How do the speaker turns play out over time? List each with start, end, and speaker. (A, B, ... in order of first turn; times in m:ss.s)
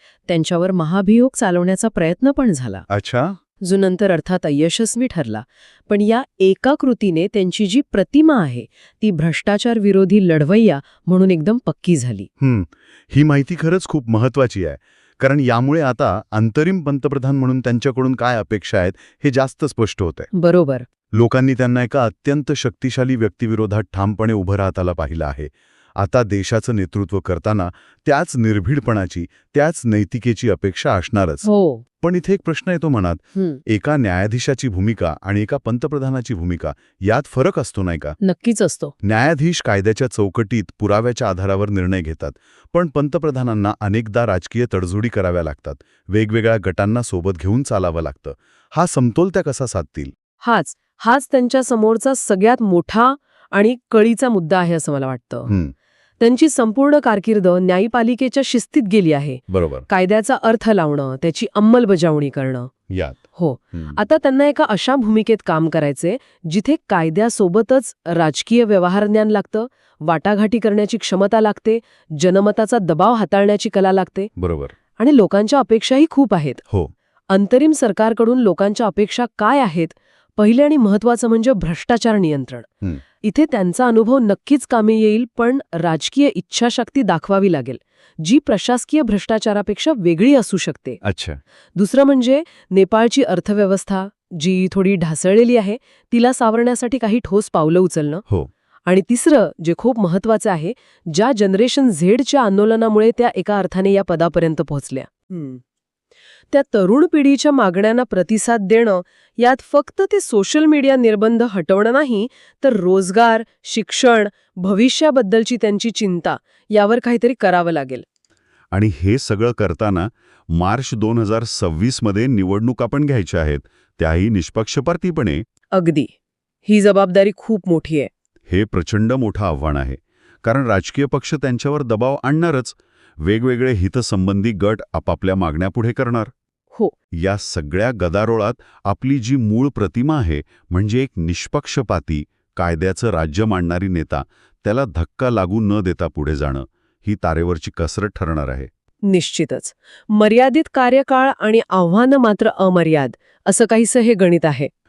0:00.3-0:02.8 A
0:02.9-0:03.4 B
0:03.6-0:12.3 A
0:12.4-0:20.3 B
0:20.3-0:20.9 A
0:21.1-0:31.5 B
0:31.4-0:31.8 A
0:32.0-0:38.2 B
0:33.4-0:33.6 A
0:38.2-0:38.9 A
0:39.0-0:50.1 B
0:50.4-0:55.5 A
0:55.5-0:55.7 B
0:56.2-1:02.7 A
0:59.5-0:59.9 B
1:02.9-1:03.2 B
1:03.4-1:14.3 A
1:14.4-1:14.8 B
1:15.0-1:16.6 A
1:17.3-1:22.7 A
1:23.2-1:31.0 A
1:31.0-1:31.4 B
1:31.8-1:38.2 A
1:38.9-1:45.6 A
1:46.5-1:58.0 A
1:58.7-2:05.4 B
2:05.7-2:06.1 A
2:06.6-2:08.1 A
2:08.5-2:16.3 B
2:17.2-2:28.7 B
2:29.0-2:34.7 A